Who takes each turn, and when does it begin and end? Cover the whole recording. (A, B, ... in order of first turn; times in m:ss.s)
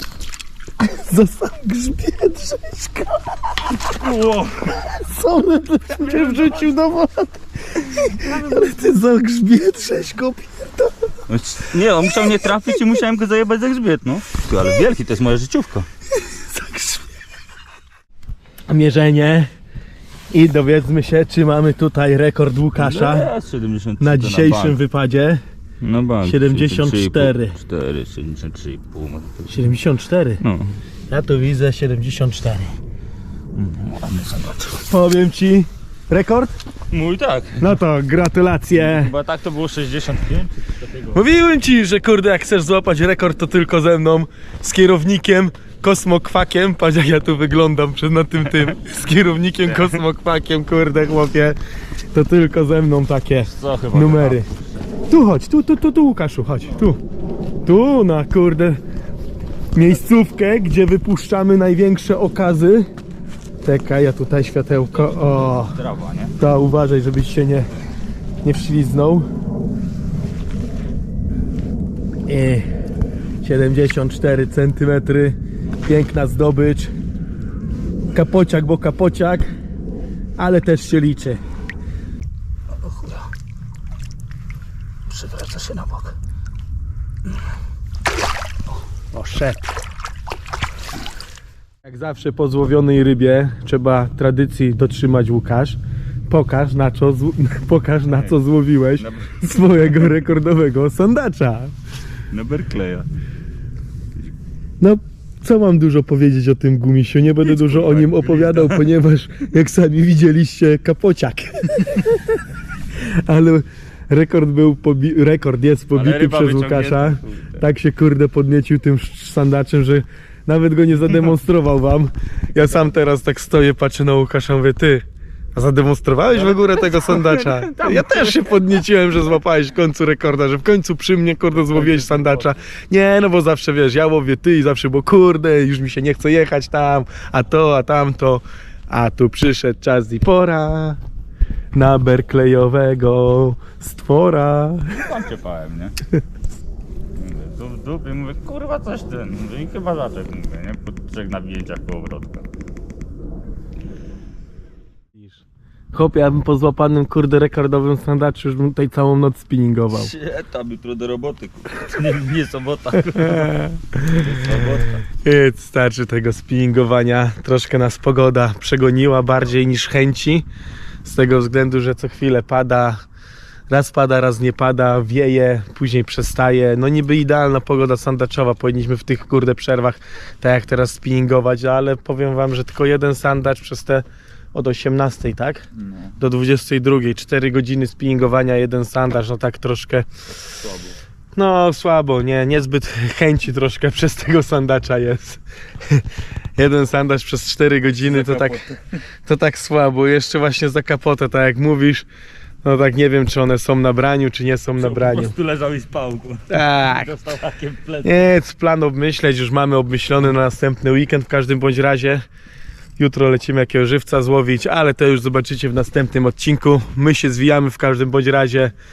0:00.8-0:03.8 A
0:03.8-0:04.9 B
0:04.8-0:10.9 A
0:06.0-0:06.7 B
0:08.1-0:08.7 B
0:11.3-0:15.9 B
0:16.2-0:17.0 A
0:18.7-0:19.5 A
0:20.3-0:23.3 A
0:22.7-0:24.8 B
0:24.0-0:25.4 A
0:25.8-0:29.6 B
0:26.2-0:27.6 A
0:29.5-0:30.4 A
0:30.4-0:30.8 B
0:31.1-0:32.8 A
0:33.5-0:34.7 B
0:34.7-0:36.6 A
0:36.9-0:37.7 B
0:37.6-0:39.1 A
0:38.7-0:41.2 B
0:41.1-0:51.6 A
0:52.1-0:54.5 A
0:53.4-0:54.6 B
0:55.1-0:57.0 A
0:57.6-0:58.8 A
0:59.7-1:02.9 A
1:03.6-1:05.8 A
1:04.9-1:06.3 B
1:06.4-1:07.7 A
1:08.4-1:09.3 A
1:12.3-1:12.7 A
1:13.4-1:16.9 A
1:18.1-1:19.5 A
1:20.4-1:21.4 A
1:25.1-1:26.2 A
1:29.1-1:29.7 A
1:31.8-1:35.8 A
1:36.3-1:41.7 A
1:38.1-1:38.4 B
1:39.0-1:40.0 B
1:42.3-1:43.1 B
1:44.8-1:52.4 A
1:47.4-1:48.9 B
1:53.0-2:21.0 A
1:55.9-1:57.6 B
2:06.3-2:08.7 B
2:11.5-2:12.6 B
2:21.7-2:25.1 A
2:25.0-2:26.0 B
2:27.2-2:32.5 B
2:35.1-2:35.4 A
2:35.9-2:40.1 A
2:39.9-2:45.0 B
2:43.1-2:44.6 A
2:45.2-2:50.4 A
2:51.0-2:53.0 A
2:53.7-3:05.6 A
3:05.8-3:06.2 B
3:06.2-3:10.1 A
3:10.5-3:11.0 B
3:11.4-3:16.0 A
3:16.6-3:18.6 A
3:18.1-3:18.8 B
3:19.2-3:22.0 A
3:22.6-3:25.3 A
3:24.8-3:28.3 B
3:26.5-3:27.1 A
3:28.0-3:32.2 A
3:33.0-3:38.7 A